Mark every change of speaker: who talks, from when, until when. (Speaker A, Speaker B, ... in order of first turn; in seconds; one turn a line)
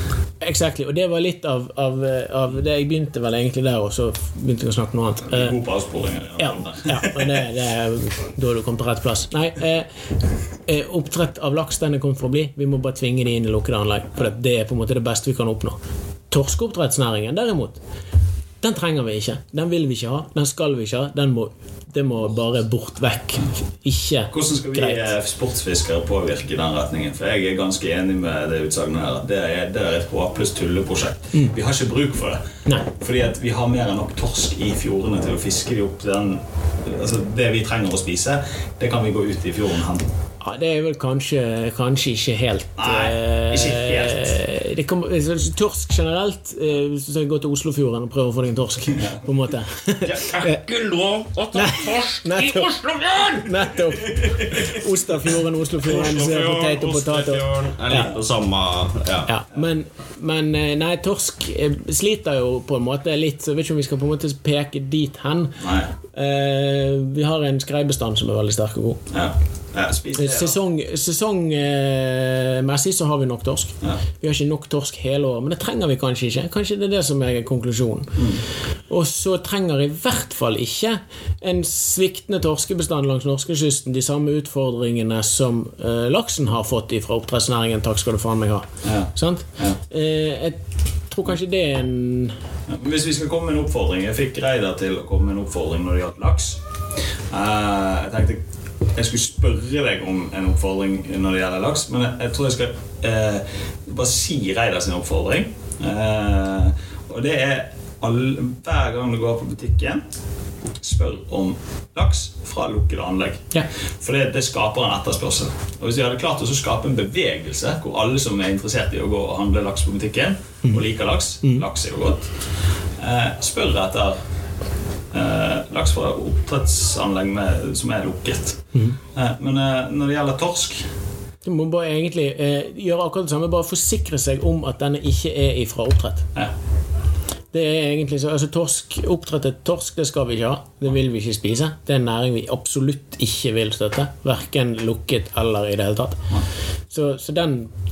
Speaker A: 0.4-5.6
Speaker B: 5.3-7.4
Speaker A: 6.4-9.9
Speaker A: 10.7-15.8
Speaker A: 16.3-17.8
Speaker A: 18.6-25.1
Speaker B: 24.3-40.1
Speaker A: 40.4-50.6
Speaker B: 42.8-44.3
Speaker C: 50.0-53.7
Speaker A: 51.5-58.1
Speaker C: 55.8-59.3
Speaker A: 59.2-69.1
Speaker B: 65.6-65.9
Speaker B: 69.1-70.5
Speaker A: 70.1-78.3
Speaker B: 78.2-78.4
Speaker A: 78.9-92.3
Speaker B: 88.8-89.8
Speaker B: 92.7-96.6
Speaker B: 97.3-98.4
Speaker B: 98.9-110.0
Speaker B: 110.8-124.2
Speaker A: 121.4-121.7
Speaker B: 125.1-130.9
Speaker A: 131.4-136.3
Speaker A: 137.5-146.2
Speaker A: 146.9-147.7